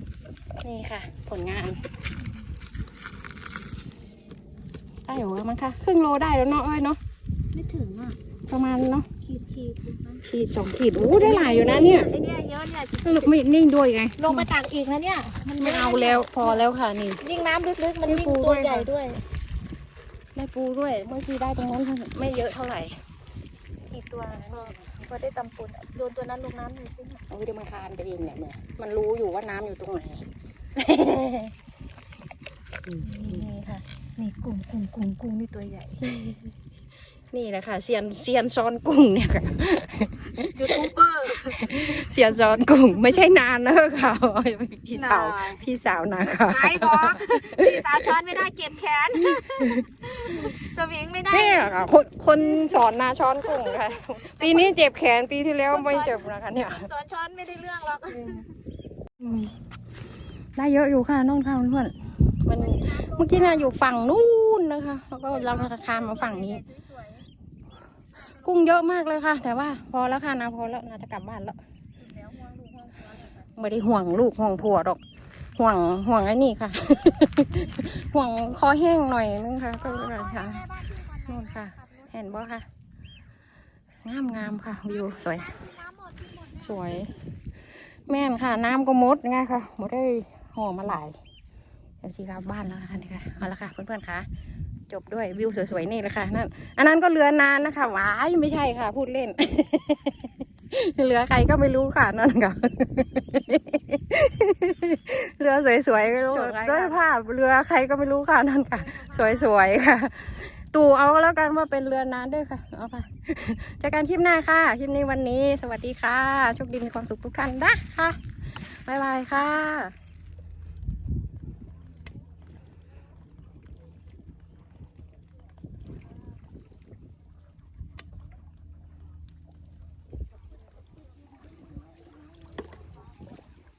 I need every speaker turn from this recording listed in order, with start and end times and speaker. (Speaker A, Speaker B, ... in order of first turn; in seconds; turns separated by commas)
Speaker A: 0.6-1.8, Speaker A: 5.1-7.0, Speaker B: 7.5-8.2, Speaker A: 8.5-9.1, Speaker B: 9.2-10.2, Speaker A: 10.2-12.1, Speaker B: 10.9-13.3, Speaker A: 13.0-14.5, Speaker B: 14.2-16.6, Speaker A: 15.6-17.2, Speaker B: 17.2-19.2, Speaker A: 18.0-18.9, Speaker A: 20.3-23.0, Speaker A: 23.9-24.9, Speaker B: 24.2-27.2, Speaker A: 27.3-30.2, Speaker A: 30.8-31.5, Speaker A: 32.9-33.8, Speaker B: 33.0-33.6, Speaker B: 34.2-36.1, Speaker A: 36.0-36.4, Speaker A: 37.3-40.8, Speaker B: 40.5-41.8, Speaker A: 41.5-48.2, Speaker B: 44.9-45.6, Speaker B: 46.5-51.9, Speaker A: 49.2-50.5, Speaker A: 51.3-56.9, Speaker B: 53.5-54.7, Speaker B: 55.7-58.5, Speaker A: 58.1-58.5, Speaker A: 59.2-59.6, Speaker A: 60.5-66.6, Speaker B: 62.5-63.9, Speaker B: 65.3-67.3, Speaker A: 68.2-71.6, Speaker B: 72.0-73.5, Speaker A: 73.5-75.0, Speaker A: 75.5-82.7, Speaker B: 79.8-82.1, Speaker A: 84.0-85.6, Speaker B: 85.0-86.6, Speaker A: 86.5-87.2, Speaker A: 88.1-91.2, Speaker A: 92.0-94.3, Speaker A: 94.9-119.9, Speaker B: 106.2-107.1, Speaker B: 108.9-109.3